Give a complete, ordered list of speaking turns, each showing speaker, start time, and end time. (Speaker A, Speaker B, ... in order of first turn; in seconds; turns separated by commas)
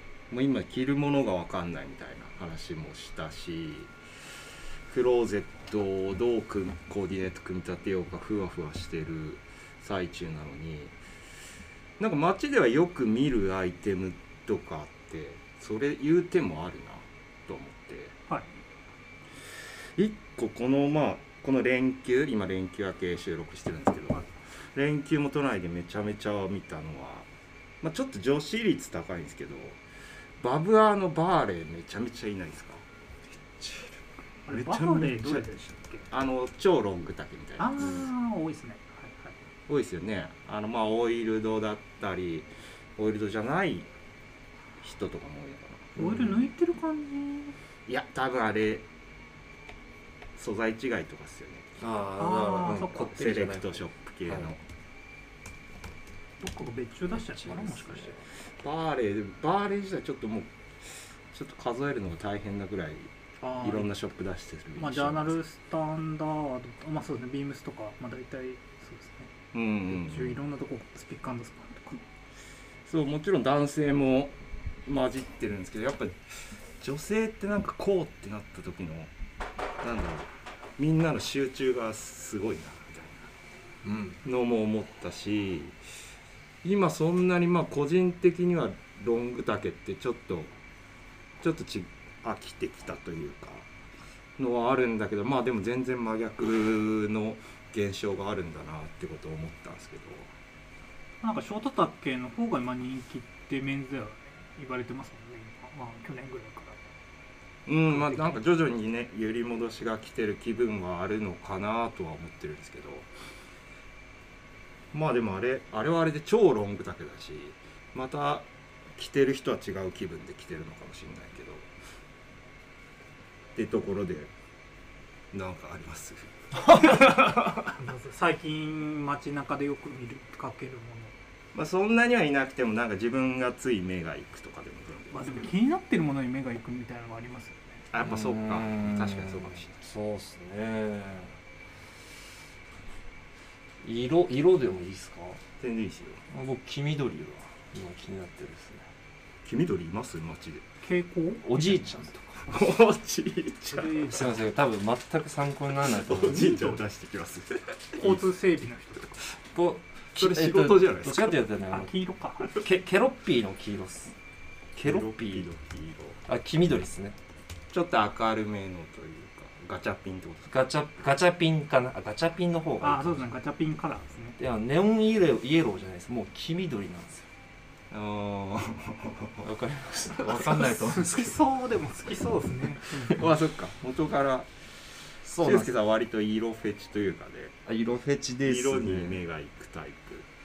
Speaker A: 0.3-3.9, Speaker A: 4.9-10.9, Speaker A: 12.0-18.1, Speaker A: 19.9-27.3, Speaker A: 27.8-29.8, Speaker A: 30.4-32.8, Speaker B: 33.6-33.9, Speaker C: 34.5-36.1, Speaker A: 34.5-35.5, Speaker A: 36.1-37.9, Speaker C: 37.6-39.4, Speaker A: 39.7-43.9, Speaker A: 44.8-45.9, Speaker B: 46.0-46.4, Speaker C: 46.0-47.6, Speaker A: 47.9-48.9, Speaker A: 50.4-51.8, Speaker B: 51.8-54.5, Speaker C: 52.2-53.1, Speaker A: 53.0-54.6, Speaker C: 56.4-58.2, Speaker B: 57.1-58.2, Speaker A: 58.5-60.5, Speaker A: 61.3-65.4, Speaker C: 63.4-63.9, Speaker C: 64.8-69.3, Speaker A: 69.5-70.4, Speaker C: 69.9-72.0, Speaker A: 72.9-79.1, Speaker A: 79.8-83.3, Speaker B: 83.8-84.2, Speaker A: 84.2-85.8, Speaker A: 86.6-90.5, Speaker A: 91.4-93.7, Speaker A: 94.4-100.3, Speaker C: 101.2-106.8, Speaker A: 107.7-113.1, Speaker C: 107.9-108.4, Speaker A: 114.9-121.7, Speaker A: 123.6-124.3, Speaker A: 125.3-127.8, Speaker C: 127.8-131.1, Speaker A: 131.5-135.5, Speaker C: 135.1-137.8, Speaker A: 137.9-139.8, Speaker B: 138.0-141.4, Speaker B: 143.8-145.4, Speaker A: 145.6-146.2, Speaker B: 146.3-148.9, Speaker A: 149.4-150.6, Speaker C: 150.8-151.7, Speaker B: 151.4-152.5, Speaker A: 152.5-154.1, Speaker C: 153.7-154.3, Speaker B: 154.1-156.7, Speaker A: 155.9-158.3, Speaker C: 158.0-159.2, Speaker B: 159.5-161.9, Speaker A: 160.2-161.4, Speaker C: 161.7-162.6, Speaker B: 162.6-164.2, Speaker B: 164.8-165.5, Speaker A: 164.8-166.2, Speaker B: 166.2-167.2, Speaker A: 167.7-170.5, Speaker B: 170.5-173.3, Speaker C: 172.8-174.4, Speaker B: 174.4-177.3, Speaker A: 177.9-179.5, Speaker B: 179.4-181.4, Speaker A: 180.2-180.8, Speaker C: 180.3-183.3, Speaker A: 183.0-184.5, Speaker B: 185.2-185.7, Speaker A: 185.4-187.6, Speaker B: 187.7-189.2, Speaker A: 188.4-190.3